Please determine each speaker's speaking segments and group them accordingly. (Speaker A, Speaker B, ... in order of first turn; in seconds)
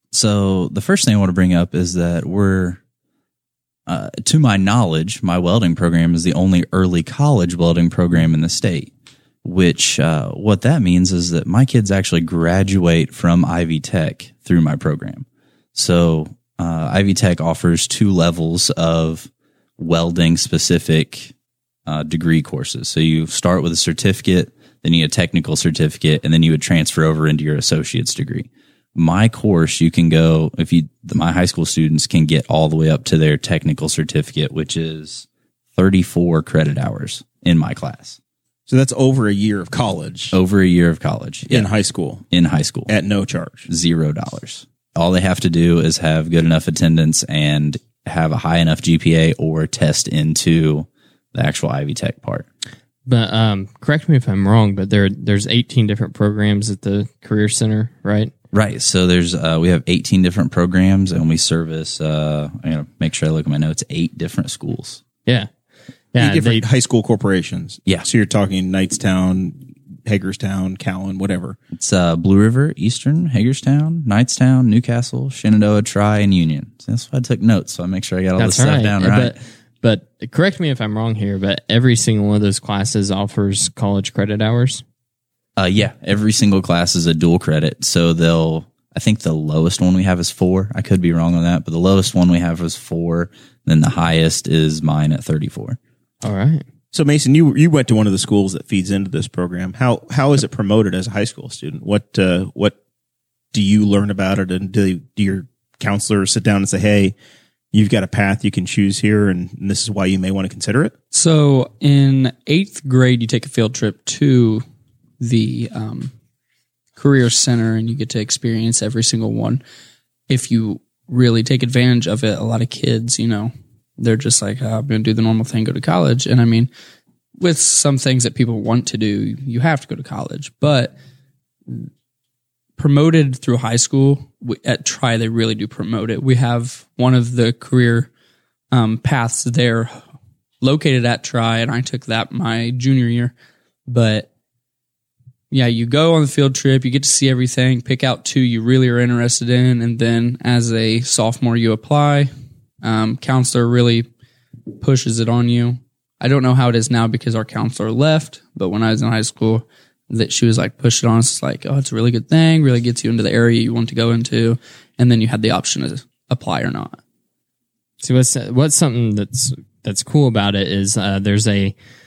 Speaker A: 0.1-2.8, 3.9-8.9, 9.4-21.3, 21.9-38.2, 40.3-41.7, 42.3-42.9, 43.7-52.5, 58.5-65.0, 71.7-79.3, 85.6-95.8
Speaker B: 38.7-40.3, 41.5-42.2, 42.9-43.7, 66.2-71.6, 96.9-102.7, 103.5-107.1, 107.7-110.9
Speaker C: 53.0-58.3, 66.1-66.6, 78.4-84.8, 96.2-96.6, 168.0-171.8
Speaker D: 111.1-114.6, 115.2-116.1, 117.0-119.6, 120.3-126.7, 127.4-130.9, 132.8-138.1, 138.7-139.9, 140.6-143.3, 143.9-144.3, 145.5-152.3, 152.8-154.1, 154.8-167.0